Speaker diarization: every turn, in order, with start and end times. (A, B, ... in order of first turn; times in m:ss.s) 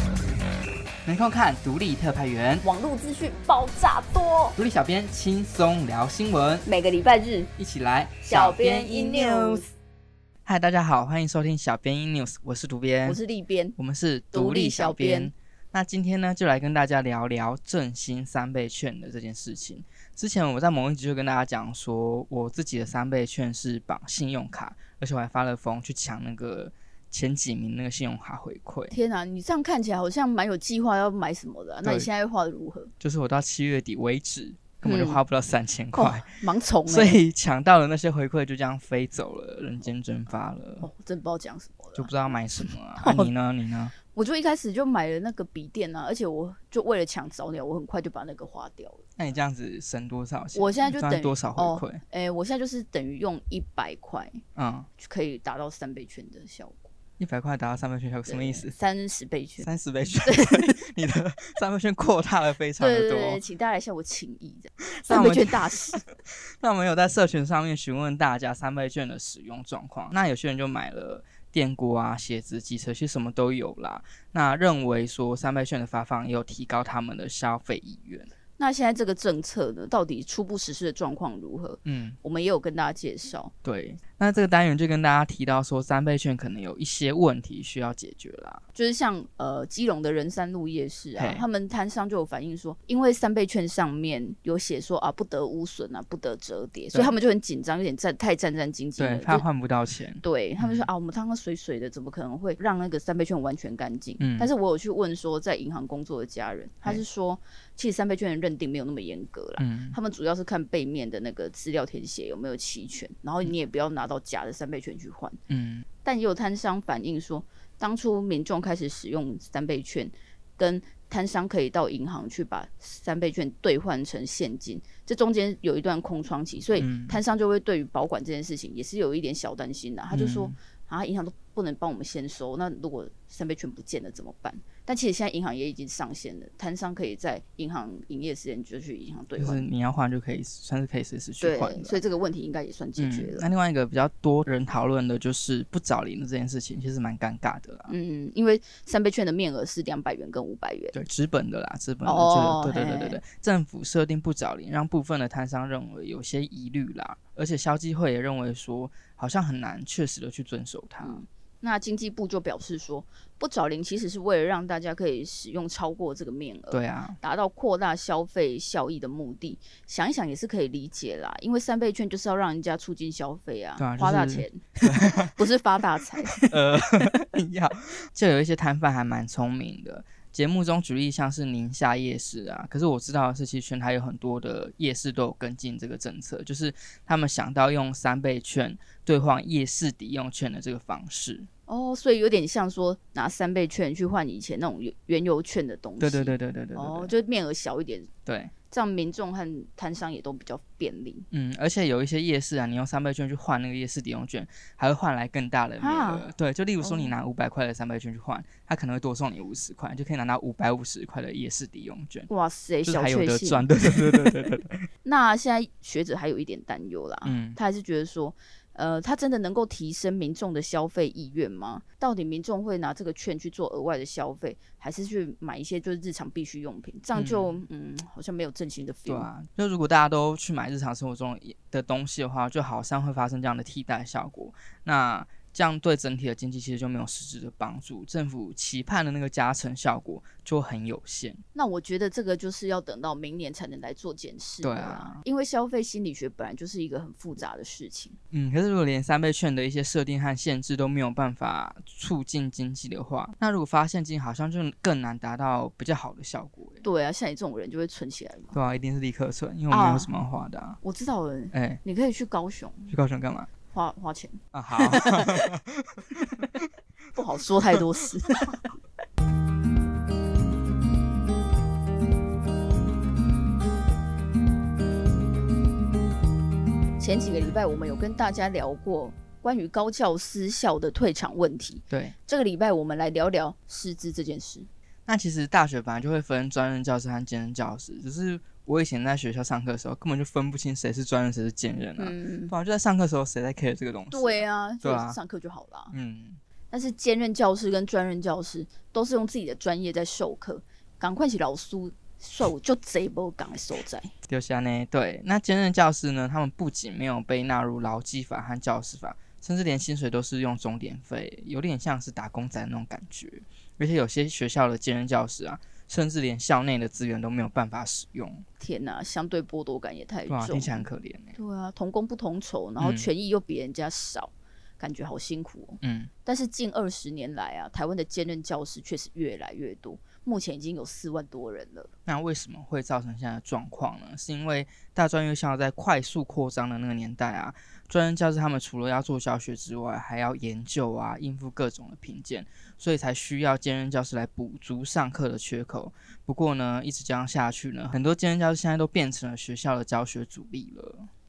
0:01.0-0:02.6 A
0:02.6-0:04.6 B
0:04.6-0:06.7 A
0:06.6-0:07.5 B
0:07.6-0:09.6 A
0:08.2-0:09.7 B
0:10.4-0:13.2 A
0:13.0-0:13.8 B
0:13.8-0:28.9 A
0:14.3-0:15.3 B
0:28.9-0:32.9 B
0:31.8-0:32.1 A
0:33.0-0:36.3 A
0:34.8-0:35.2 B
0:35.9-0:37.2 B
0:36.8-0:40.9 A
0:40.8-0:43.3 B
0:41.9-0:43.9 A
0:43.9-0:49.0 B
0:49.2-0:52.0 A
0:50.5-0:54.4 B
0:54.6-0:54.9 A
0:55.0-0:56.9 B
0:57.2-0:58.7 A
0:58.2-1:00.8 B
0:59.6-1:03.4 A
1:02.8-1:06.0 B
1:05.0-1:06.0 A
1:06.6-1:18.3 A
1:18.6-1:23.5 B
1:21.8-1:22.2 A
1:23.6-1:28.6 A
1:28.7-1:39.5 B
1:31.2-1:31.4 A
1:39.0-1:40.9 A
1:40.2-1:55.4 B
1:44.2-1:44.5 A
1:49.6-1:50.0 A
1:55.5-1:55.8 A
1:56.0-2:19.7 B
2:06.8-2:07.2 A
2:10.1-2:10.5 A
2:19.4-2:22.0 A
2:21.4-2:23.5 B
2:23.0-2:27.9 A
2:27.9-2:31.0 B
2:30.9-2:41.2 A
2:32.0-2:33.2 B
2:41.0-2:56.5 B
2:46.7-2:47.2 A
2:53.8-2:55.3 A
2:56.4-3:11.5 A
3:11.7-3:18.1 B
3:16.0-3:17.1 A
3:18.2-3:18.5 A
3:18.7-3:21.2 B
3:21.3-3:32.3 A
3:25.8-3:27.2 B
3:32.3-3:34.5 B
3:32.8-3:34.9 A
3:35.0-3:49.3 B
3:37.2-3:37.6 A
3:47.1-3:47.6 A
3:49.0-4:01.4 A
4:01.5-4:08.2 B
4:04.6-4:05.2 A
4:08.3-4:16.8 A
4:16.8-4:18.6 B
4:18.5-4:20.8 A
4:19.7-4:20.2 B
4:20.8-4:22.9 B
4:21.5-4:21.8 A
4:22.9-4:23.5 A
4:23.7-4:25.5 B
4:24.5-4:26.6 A
4:27.1-4:28.7 B
4:37.0-4:44.7 B
4:41.9-4:42.1 A
4:45.1-4:55.2 A
4:52.0-4:52.6 B
4:54.1-4:55.9 B
4:55.9-4:56.4 A
4:56.7-5:04.1 B
5:04.3-5:18.4 A
5:18.6-5:31.9 B
5:20.3-5:21.4 A
5:22.8-5:23.1 A
5:25.8-5:26.1 A
5:32.1-5:51.1 A